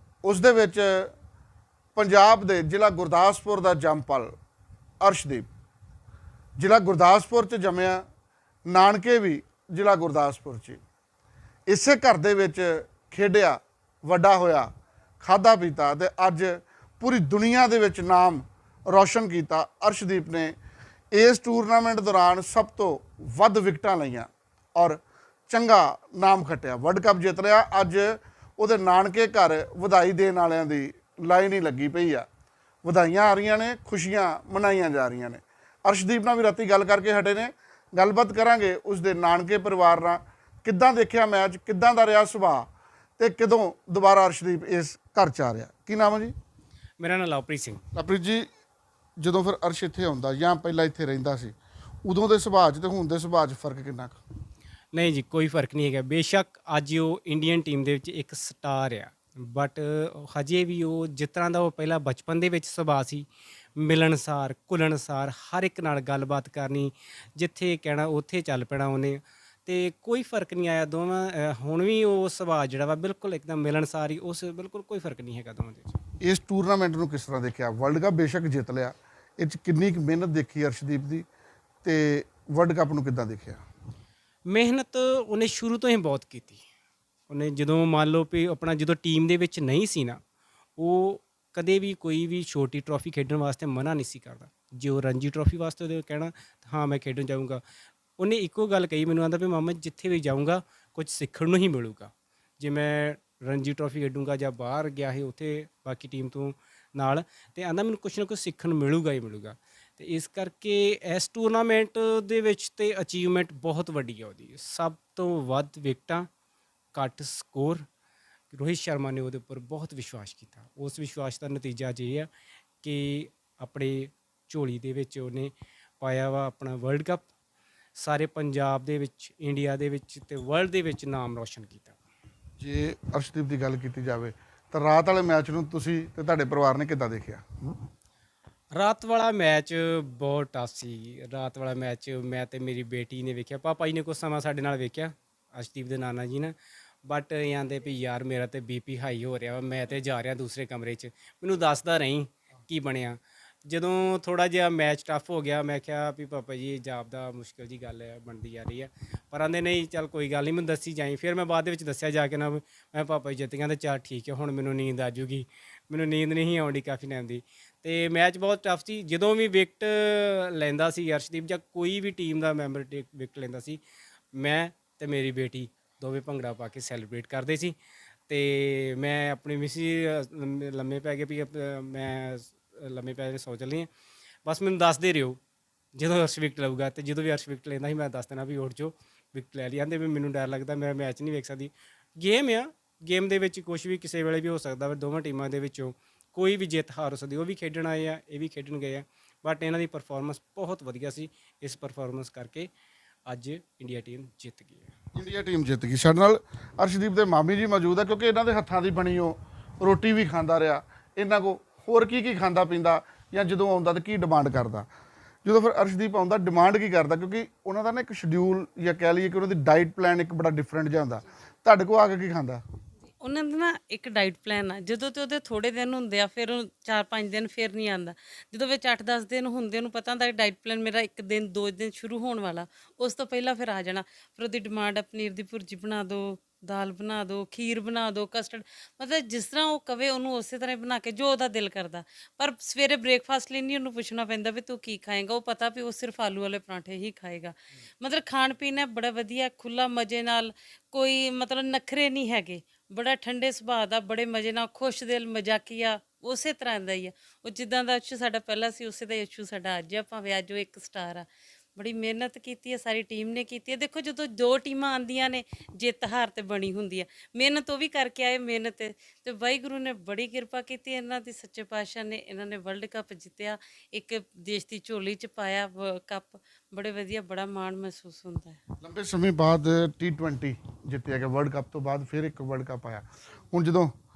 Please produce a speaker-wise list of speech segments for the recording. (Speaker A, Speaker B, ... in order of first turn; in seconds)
Speaker A: 0.2-1.1, 1.9-4.3, 5.0-5.5, 6.6-8.0, 8.7-10.8, 11.7-14.7, 15.2-20.5, 21.1-32.2, 32.8-46.3, 47.9-48.5, 49.2-54.2, 76.2-81.2, 81.8-83.6, 132.6-137.4, 205.2-214.9, 215.4-222.6, 278.8-283.9
Speaker B: 47.0-47.8, 54.9-76.0, 84.5-86.6, 87.3-90.2, 90.8-97.6, 98.2-116.3, 116.9-117.8, 118.5-122.3, 122.8-127.3, 128.0-132.0, 138.7-173.8, 174.3-177.8, 178.3-183.9, 184.4-185.4, 185.9-202.7, 203.2-204.9
Speaker C: 223.2-278.6